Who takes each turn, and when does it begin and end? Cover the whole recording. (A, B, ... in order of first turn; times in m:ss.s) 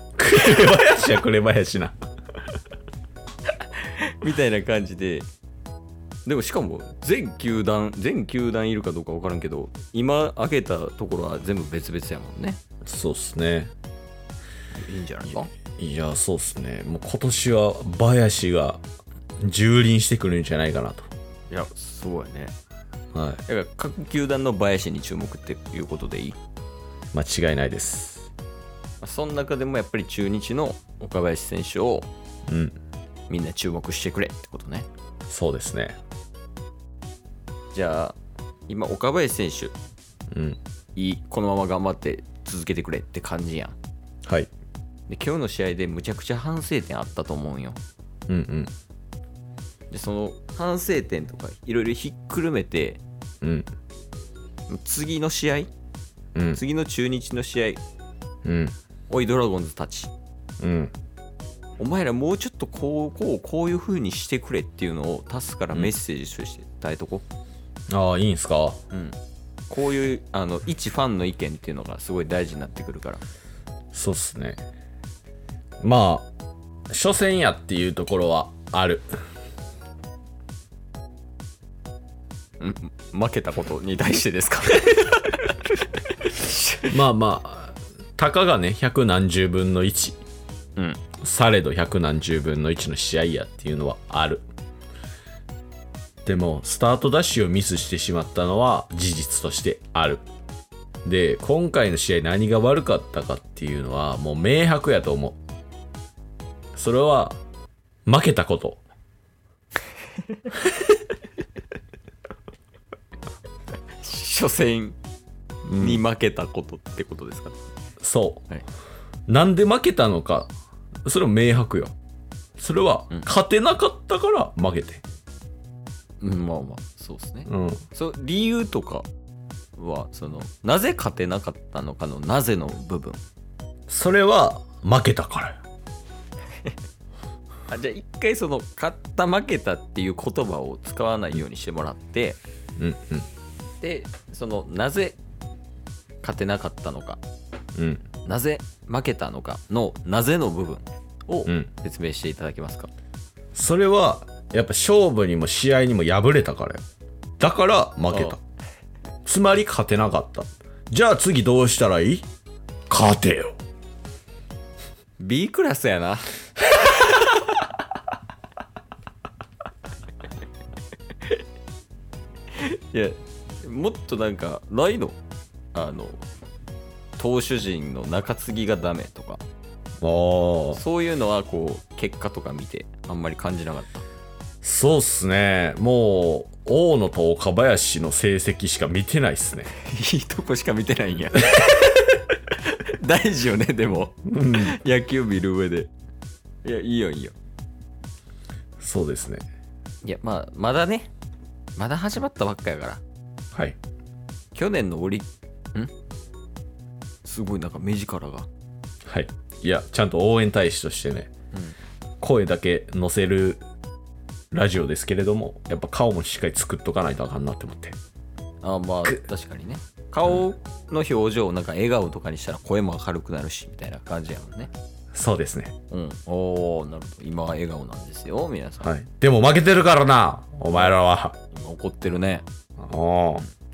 0:00.2-0:01.9 A
0:03.7-0:05.2 B
0:06.2-0:12.6 B
0:12.8-0:13.7 A
0:14.7-0:15.5 B
0:15.8-0:18.8 A
0:19.4-0:21.1 A
0:21.5-0:22.5 B
0:23.1-0:23.4 A
0:23.5-0:26.4 B
0:27.1-0:28.3 A
0:29.0-0:32.1 B
0:32.5-0:32.7 A
0:33.3-0:34.9 B
0:35.3-0:36.0 A
0:37.7-0:38.2 B
0:38.7-0:39.7 B
0:40.3-0:40.6 A
0:41.0-0:43.8 B
0:45.1-0:47.8 B
0:48.3-0:48.7 A
0:49.9-0:53.0 B
0:53.4-0:53.7 A
0:54.7-0:55.7 B
0:56.3-0:56.6 A
0:56.5-0:57.8 B
0:58.4-0:58.7 A
0:59.1-1:00.1 B
1:00.6-1:00.9 A
1:01.8-1:07.2 B
1:07.9-1:08.8 A
1:08.9-1:09.2 B
1:09.7-1:13.2 B
1:13.9-1:14.6 A
1:15.8-1:16.3 A
1:16.9-1:19.1 A
1:22.6-1:26.9 B
1:26.9-1:30.2 A
1:30.8-1:31.0 B
1:31.2-1:34.4 A
1:36.2-1:40.2 A
1:41.0-1:45.4 A
1:46.7-1:47.4 A
1:48.0-1:48.8 A
1:54.0-1:55.0 B
1:55.7-1:57.6 B
1:55.7-1:56.0 A
1:58.0-1:58.4 A
1:59.3-2:00.5 A
2:01.0-2:01.9 A
2:02.6-2:05.0 A
2:06.2-2:09.1 B
2:07.5-2:07.8 A
2:09.8-2:13.2 B
2:13.9-2:15.6 A
2:17.7-2:22.4 B
2:22.8-2:23.3 A
2:23.8-2:25.2 B
2:26.2-2:27.2 B
2:27.7-2:28.0 A
2:28.2-2:32.9 B
2:33.5-2:36.8 A
2:37.4-2:38.4 A
2:38.1-2:38.4 B
2:39.2-2:42.3 A
2:42.9-2:43.6 A
2:45.2-2:46.3 B
2:46.9-2:47.4 B
2:52.5-2:55.2 B
2:55.7-2:56.2 B
2:57.2-2:59.4 B
3:00.0-3:00.8 A
3:00.7-3:04.0 B
3:04.6-3:09.7 A
3:09.7-3:15.9 B
3:14.2-3:14.8 A
3:16.6-3:17.4 B
3:18.8-3:19.4 A
3:20.0-3:21.1 B
3:21.8-3:23.0 B
3:24.5-3:25.9 B
3:27.2-3:28.5 B
3:29.0-3:31.3 A
3:32.2-3:33.6 A
3:34.5-3:38.0 A
3:38.6-3:44.7 B
3:45.1-3:45.7 A
3:45.9-3:48.9 B
3:48.8-3:51.4 A
3:51.5-3:52.4 B
3:52.8-3:53.4 A